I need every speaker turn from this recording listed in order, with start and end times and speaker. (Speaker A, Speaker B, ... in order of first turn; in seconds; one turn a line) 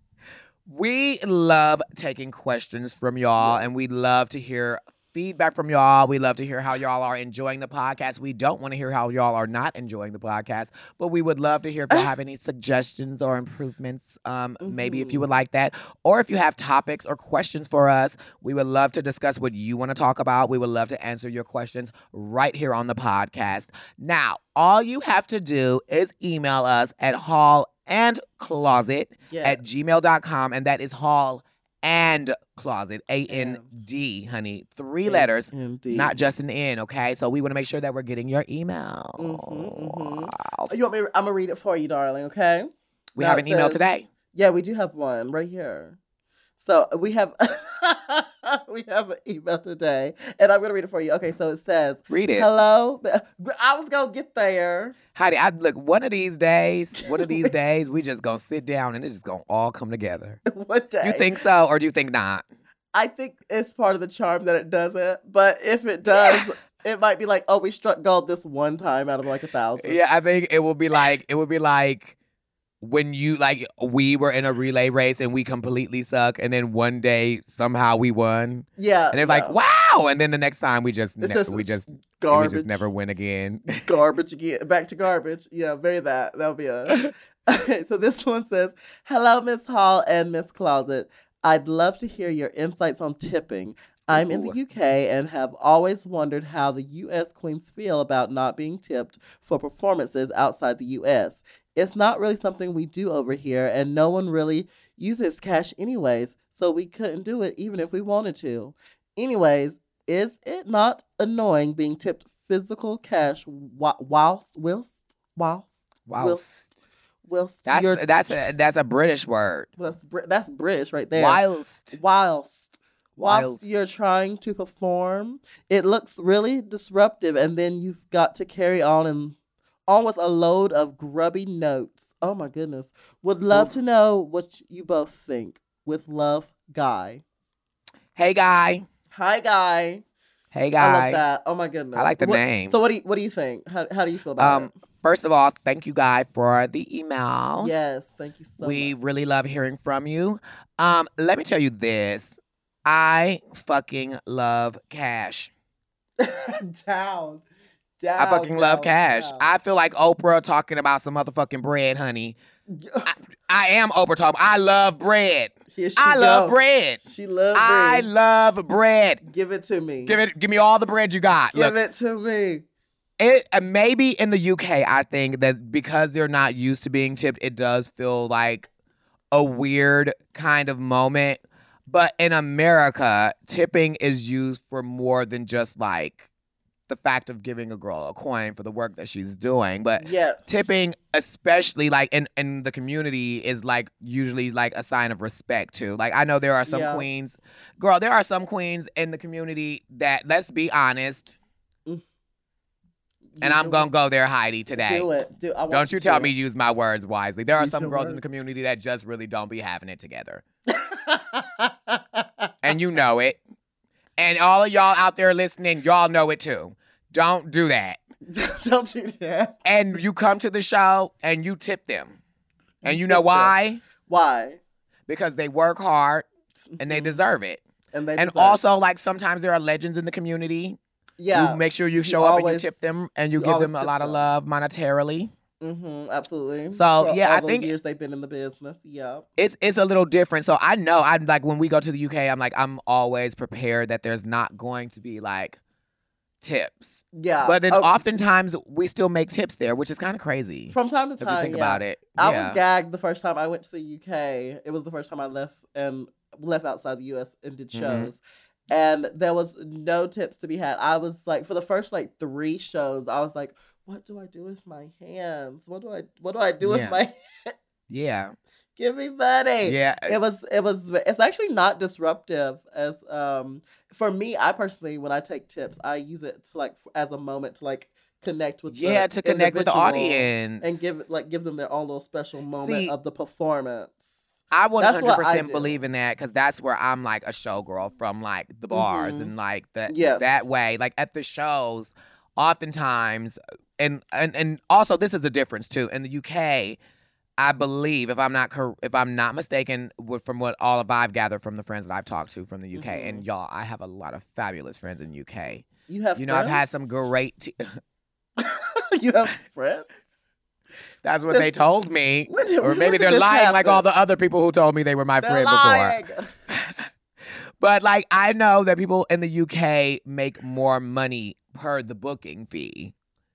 Speaker A: 0.7-40.7
Speaker B: 14.6-15.3
Speaker B: 29.3-29.6
Speaker B: 33.3-33.8
Speaker B: 35.0-36.2
Speaker B: 39.2-43.8
Speaker A: 43.1-44.1
Speaker B: 44.3-46.0
Speaker B: 46.6-55.0
Speaker A: 52.1-52.5
Speaker A: 55.1-60.4
Speaker B: 57.0-57.5
Speaker B: 60.5-61.3
Speaker A: 61.0-62.4
Speaker B: 62.9-70.0
Speaker A: 66.1-66.4
Speaker A: 69.8-72.2
Speaker A: 72.8-83.8
Speaker B: 78.8-79.6
Speaker B: 81.2-82.8
Speaker B: 83.8-116.5
Speaker A: 94.1-94.6
Speaker A: 116.1-116.8
Speaker B: 117.2-118.3
Speaker A: 117.7-119.7
Speaker B: 119.8-121.4
Speaker A: 121.1-122.0
Speaker B: 121.9-137.2
Speaker A: 123.2-123.7
Speaker A: 138.1-138.8
Speaker B: 139.1-140.0
Speaker A: 140.5-141.2
Speaker B: 140.8-144.7
Speaker A: 141.9-142.8
Speaker A: 144.4-147.7
Speaker B: 147.6-148.9
Speaker A: 148.6-155.5
Speaker B: 156.2-157.4
Speaker B: 158.0-159.5
Speaker A: 158.2-162.3
Speaker B: 162.7-163.1
Speaker A: 163.1-167.0
Speaker B: 165.7-168.1
Speaker A: 167.5-169.2
Speaker B: 169.2-170.2
Speaker A: 170.1-171.8
Speaker B: 171.5-172.6
Speaker A: 173.2-178.7
Speaker A: 179.3-186.3
Speaker A: 186.9-201.3
Speaker B: 190.0-190.5
Speaker B: 196.7-197.1
Speaker B: 203.3-203.9
Speaker A: 203.4-205.1
Speaker B: 204.7-206.3
Speaker A: 205.7-210.4
Speaker B: 207.6-208.2
Speaker B: 210.7-212.5
Speaker A: 212.6-213.4
Speaker A: 214.2-218.0
Speaker B: 218.3-219.6
Speaker A: 219.6-222.2
Speaker B: 222.8-224.6
Speaker A: 222.8-223.8
Speaker A: 225.1-226.3
Speaker B: 226.8-227.2
Speaker A: 226.8-227.6
Speaker B: 227.9-228.7
Speaker A: 228.2-230.8
Speaker B: 231.2-232.7
Speaker A: 231.3-235.3
Speaker B: 233.3-234.2
Speaker B: 235.6-239.2
Speaker A: 236.7-237.7
Speaker A: 239.4-245.6
Speaker A: 246.4-252.6
Speaker B: 247.1-248.0
Speaker B: 250.7-258.2
Speaker A: 257.7-258.1
Speaker B: 258.7-267.5
Speaker A: 266.6-267.0
Speaker A: 267.9-268.3
Speaker B: 268.8-284.1
Speaker A: 269.6-270.2
Speaker A: 278.7-280.9
Speaker A: 282.5-282.9
Speaker A: 284.5-296.8
Speaker B: 284.8-285.8
Speaker B: 288.7-289.3
Speaker B: 289.9-290.3
Speaker A: 297.4-307.7
Speaker B: 302.7-303.2
Speaker B: 305.9-306.9
Speaker B: 308.4-309.9
Speaker A: 311.0-316.0
Speaker B: 312.3-313.8
Speaker B: 315.2-316.3
Speaker A: 316.5-316.9
Speaker A: 317.6-322.9